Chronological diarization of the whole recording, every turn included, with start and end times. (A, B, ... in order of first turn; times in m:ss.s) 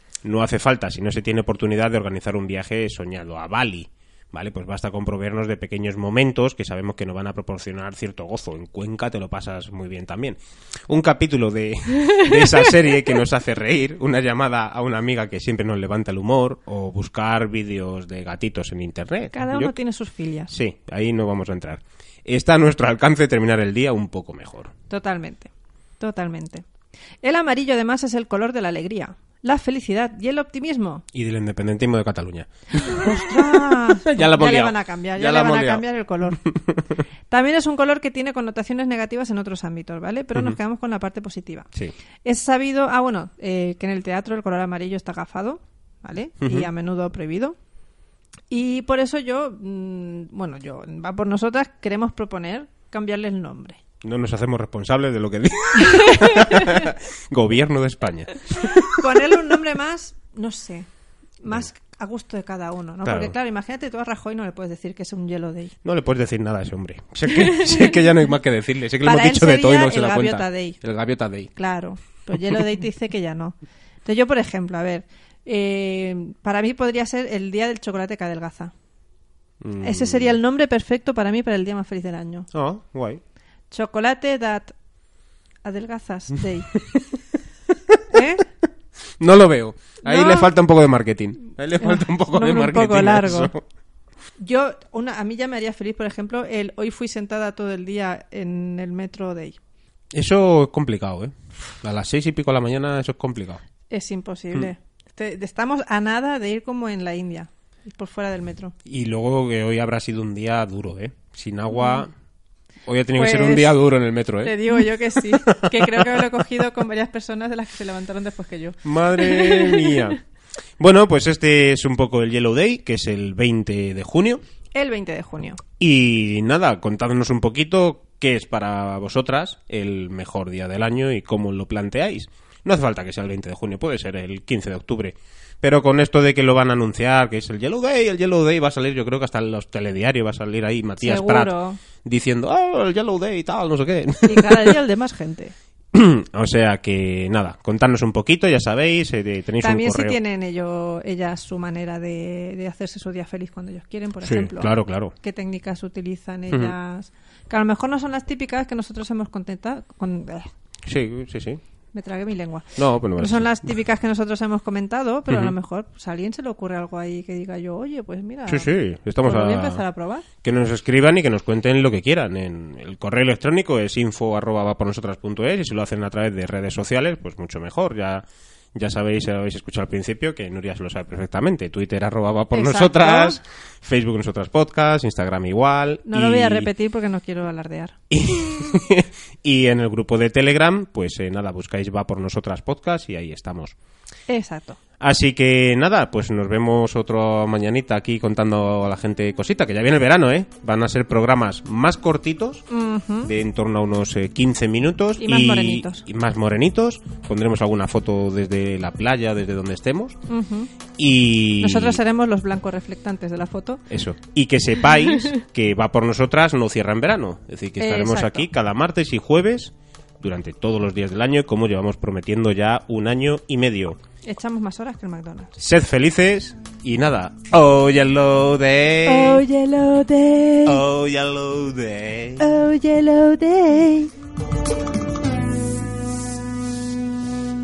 0:00.2-0:19.8 A
0:19.3-0:20.5 B
0:20.5-0:24.7 A
0:24.9-0:26.6 B
0:27.2-0:31.0 B
0:31.1-0:37.0 A
0:32.7-0:36.4 B
0:37.3-0:41.7 B
0:42.2-0:47.6 B
0:46.4-0:46.7 A
0:48.5-0:53.8 B
0:54.0-0:59.0 A
0:56.0-0:56.8 B
0:58.7-1:00.9 B
1:01.4-1:05.7 B
1:03.0-1:03.3 A
1:05.8-1:11.5 A
1:07.4-1:07.9 B
1:09.0-1:10.8 B
1:11.6-1:18.7 B
1:19.6-1:20.4 A
1:19.8-1:22.5 B
1:22.5-1:23.2 A
1:23.7-1:24.7 B
1:25.6-1:26.7 B
1:28.1-1:28.4 B
1:29.2-1:33.6 A
1:30.0-1:30.5 B
1:31.8-1:33.5 B
1:34.4-1:39.6 B
1:40.1-1:43.6 A
1:43.9-1:48.7 B
1:48.8-1:52.1 A
1:51.7-1:52.0 B
1:52.8-1:56.3 A
1:53.1-1:53.8 B
1:54.4-2:00.1 B
1:58.8-2:00.2 A
2:00.8-2:04.4 A
2:04.7-2:05.6 B
2:05.8-2:24.7 A
2:21.0-2:21.8 B
2:24.2-2:25.5 B
2:25.9-2:30.2 A
2:29.6-2:40.5 B
2:34.2-2:35.1 A
2:40.8-2:41.6 A
2:41.9-2:48.7 B
2:42.8-2:43.6 A
2:45.3-2:45.5 A
2:48.4-2:49.8 A
2:49.2-2:50.2 B
2:50.4-3:06.7 A
3:02.5-3:03.4 B
3:06.0-3:08.0 B
3:08.1-3:13.7 A
3:14.3-3:14.8 B
3:15.0-3:22.6 A
3:22.7-3:23.3 B
3:23.2-3:30.2 A
3:25.2-3:26.1 B
3:30.3-3:30.7 B
3:31.0-3:32.0 A
3:31.6-3:33.8 B
3:33.9-3:44.0 A
3:37.8-3:38.5 B
3:44.2-3:45.6 B
3:45.6-3:49.4 A
3:49.0-3:50.8 B
3:50.6-3:52.4 A
3:52.4-3:54.1 B